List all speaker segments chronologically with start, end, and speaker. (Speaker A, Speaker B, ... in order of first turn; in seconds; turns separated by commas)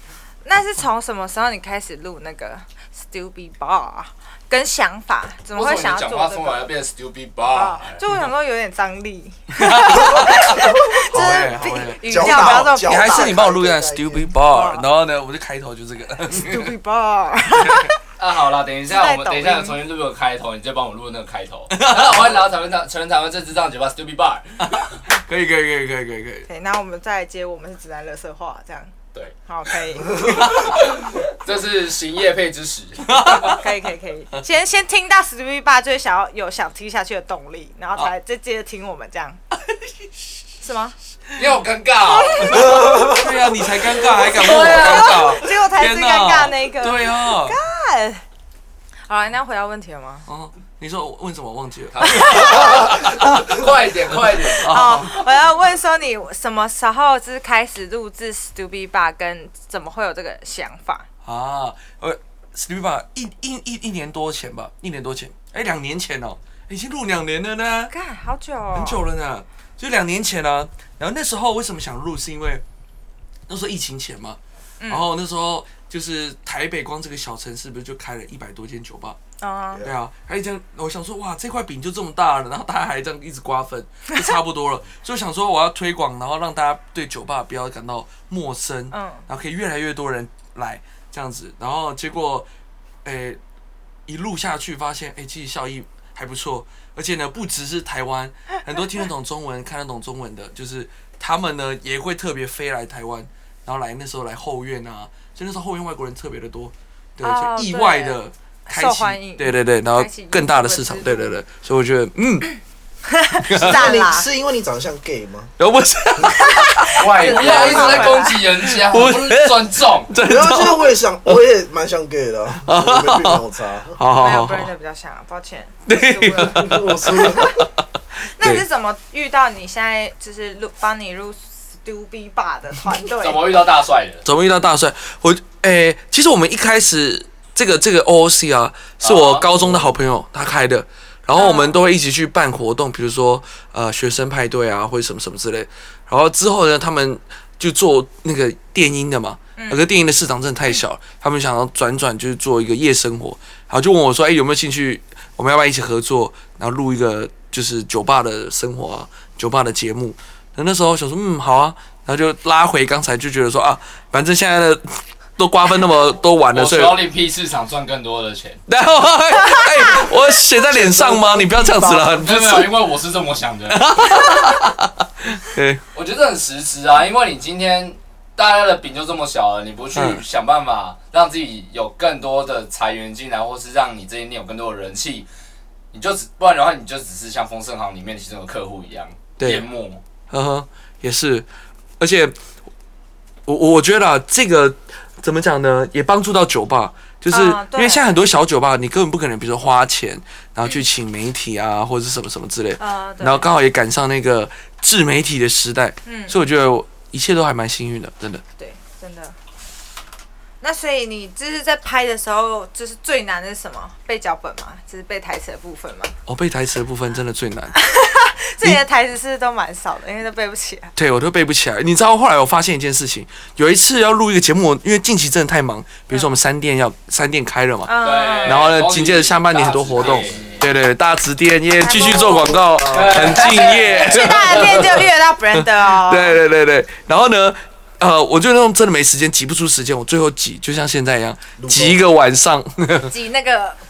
Speaker A: 0.5-6.7, Speaker B: 5.5-8.0, Speaker A: 7.5-13.4, Speaker C: 9.5-16.7, Speaker D: 9.9-14.3, Speaker A: 14.4-14.8, Speaker A: 16.3-17.9, Speaker C: 17.5-17.9, Speaker B: 18.2-24.9, Speaker A: 18.9-19.8, Speaker C: 21.7-22.5, Speaker C: 24.7-26.5, Speaker A: 26.5-28.9, Speaker A: 29.5-30.7, Speaker C: 30.2-31.0, Speaker B: 30.6-33.5, Speaker C: 33.1-33.7, Speaker A: 33.4-39.4, Speaker A: 40.6-41.0, Speaker B: 41.4-43.2, Speaker A: 42.1-43.2, Speaker C: 42.5-47.6, Speaker D: 42.8-43.2, Speaker A: 44.1-48.2, Speaker B: 44.2-45.4, Speaker A: 49.1-50.2, Speaker C: 50.3-53.6, Speaker B: 51.9-54.7, Speaker A: 52.0-52.9, Speaker C: 54.6-55.2, Speaker A: 54.6-61.1, Speaker C: 61.2-67.9, Speaker A: 67.9-69.0, Speaker C: 68.7-72.6, Speaker C: 73.5-74.4, Speaker A: 74.8-75.1, Speaker C: 74.9-79.2, Speaker A: 79.4-79.9, Speaker C: 79.8-92.5, Speaker A: 88.9-89.2, Speaker C: 93.0-93.4, Speaker C: 94.1-112.5, Speaker A: 107.2-108.2, Speaker A: 108.7-111.3, Speaker A: 113.1-114.3, Speaker C: 113.5-114.0, Speaker D: 113.6-115.5, Speaker C: 115.6-117.0, Speaker A: 116.4-118.4, Speaker B: 117.0-120.1, Speaker D: 117.3-118.1, Speaker C: 118.6-121.4, Speaker D: 120.2-124.0, Speaker C: 122.7-124.7, Speaker A: 124.1-127.6, Speaker C: 125.9-127.8, Speaker D: 126.5-127.6, Speaker A: 128.4-133.5, Speaker C: 128.4-128.7, Speaker B: 133.2-134.2, Speaker C: 134.2-167.0, Speaker B: 139.0-139.5, Speaker A: 141.4-141.8, Speaker A: 149.6-149.8, Speaker B: 166.5-168.6, Speaker C: 168.7-172.7, Speaker D: 170.7-172.2, Speaker B: 172.2-174.1, Speaker C: 173.7-175.8, Speaker B: 175.9-185.3, Speaker C: 179.9-180.2, Speaker B: 185.9-190.0, Speaker C: 189.4-189.7, Speaker C: 190.3-191.5, Speaker C: 192.0-192.4, Speaker C: 193.5-208.4, Speaker A: 197.3-198.1, Speaker A: 202.8-203.5, Speaker A: 206.1-206.3, Speaker A: 208.6-209.3, Speaker A: 210.6-216.1, Speaker C: 216.3-217.8, Speaker A: 217.8-220.9, Speaker C: 221.0-243.1, Speaker A: 227.9-228.7, Speaker B: 228.0-230.7, Speaker A: 231.8-232.7, Speaker D: 231.9-233.4, Speaker B: 232.9-234.9, Speaker A: 233.3-236.4, Speaker D: 241.6-242.0, Speaker A: 243.1-243.8